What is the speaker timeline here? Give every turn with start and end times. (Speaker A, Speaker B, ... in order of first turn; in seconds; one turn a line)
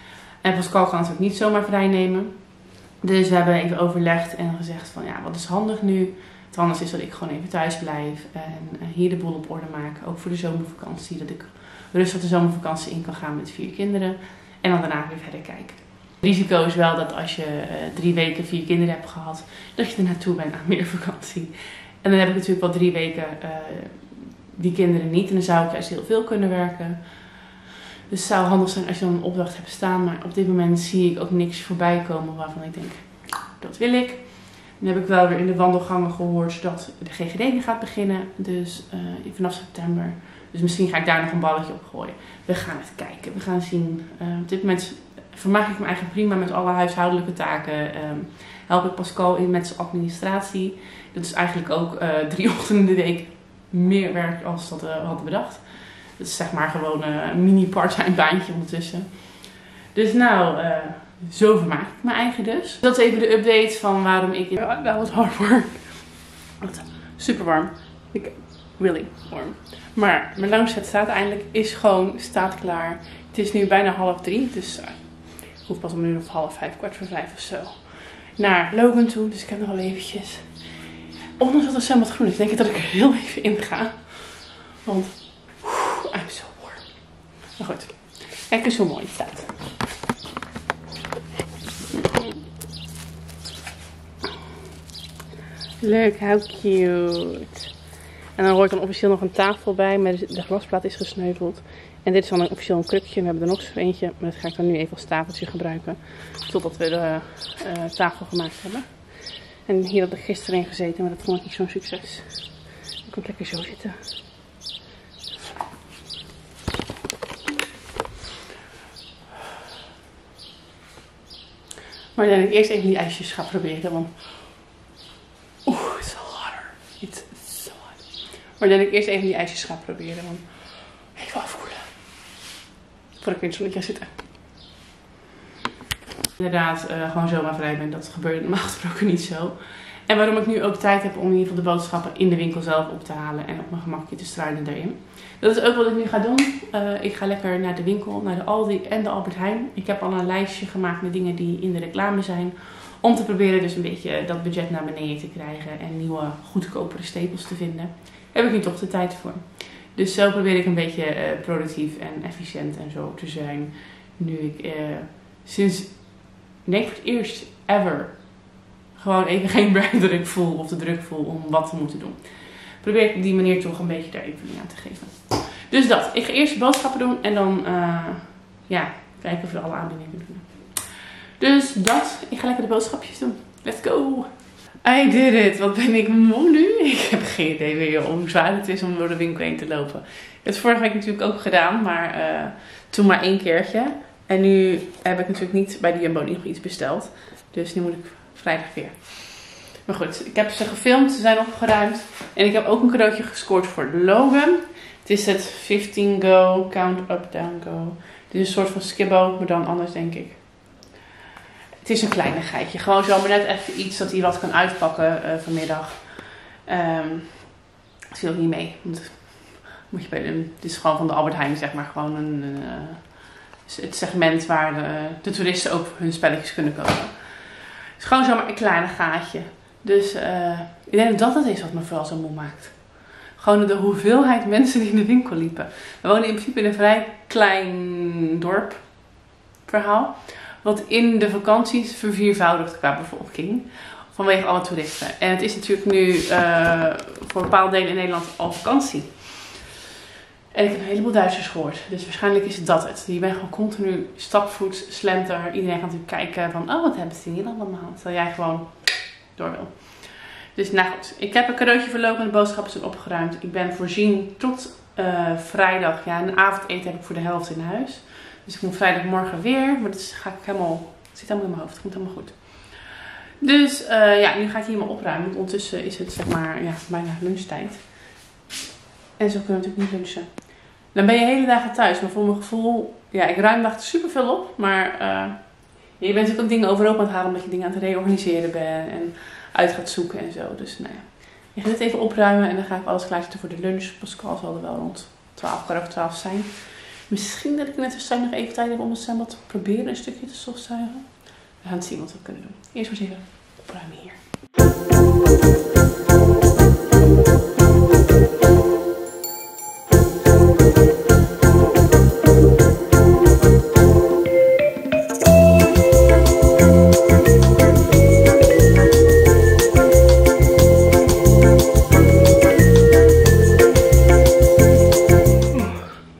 Speaker A: 0.4-27.5
Speaker A: 28.1-89.5
Speaker A: 91.9-92.4
Speaker A: 95.8-114.2
Speaker A: 122.2-124.7
Speaker A: 125.7-132.2
Speaker A: 133.2-134.2
Speaker A: 136.4-210.7
Speaker A: 211.8-249.6
Speaker A: 250.5-278.1
Speaker A: 279.2-304.2
Speaker A: 325.5-326.0